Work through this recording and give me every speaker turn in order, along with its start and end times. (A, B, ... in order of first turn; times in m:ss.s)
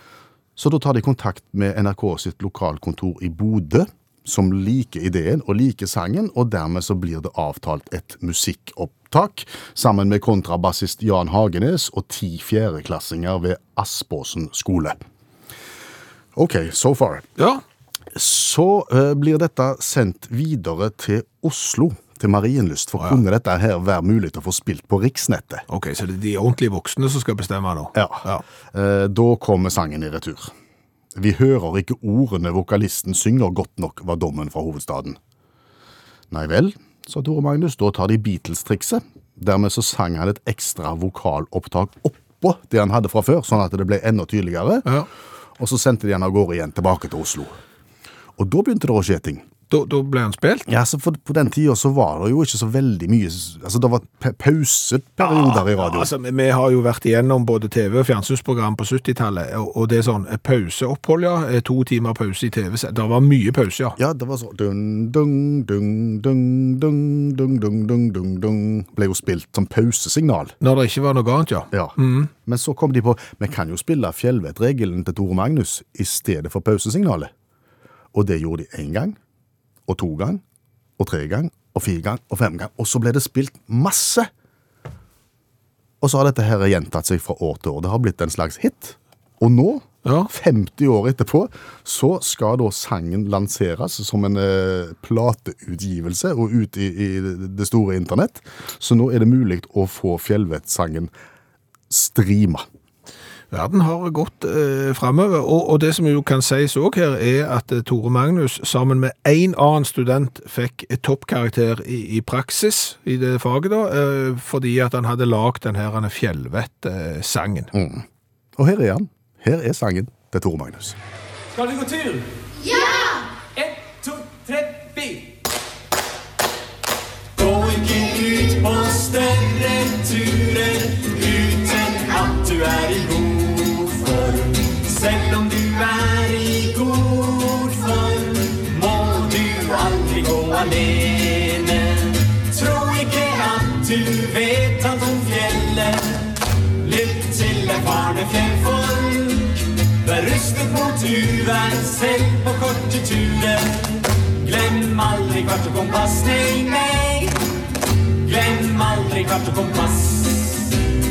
0:00.6-0:15.0 A
0:16.4-0:17.3 A
0:17.4-0:17.6 B
0:18.1-0:25.6 A
0:25.7-0:28.4 B
0:28.0-0:30.5 A
0:31.2-0:35.2 A
0:36.3-0:44.9 A
0:45.6-0:47.6 A
0:48.4-0:49.4 A
0:49.7-0:50.7 B
0:50.7-0:56.1 A
0:55.2-1:04.0 B
1:04.0-1:10.6 A
1:10.6-1:12.3 B
1:11.7-1:17.3 A
1:18.1-1:19.2 A
1:19.9-1:20.4 A
1:21.0-1:24.3 A
1:26.0-1:41.1 A
1:30.0-1:30.3 B
1:41.9-1:42.6 A
1:43.5-1:57.7 B
1:57.7-1:58.0 A
1:58.6-2:01.0 A
2:01.6-2:02.2 C
2:04.0-2:04.8 C
2:07.4-2:37.4 C
2:38.2-2:40.8 C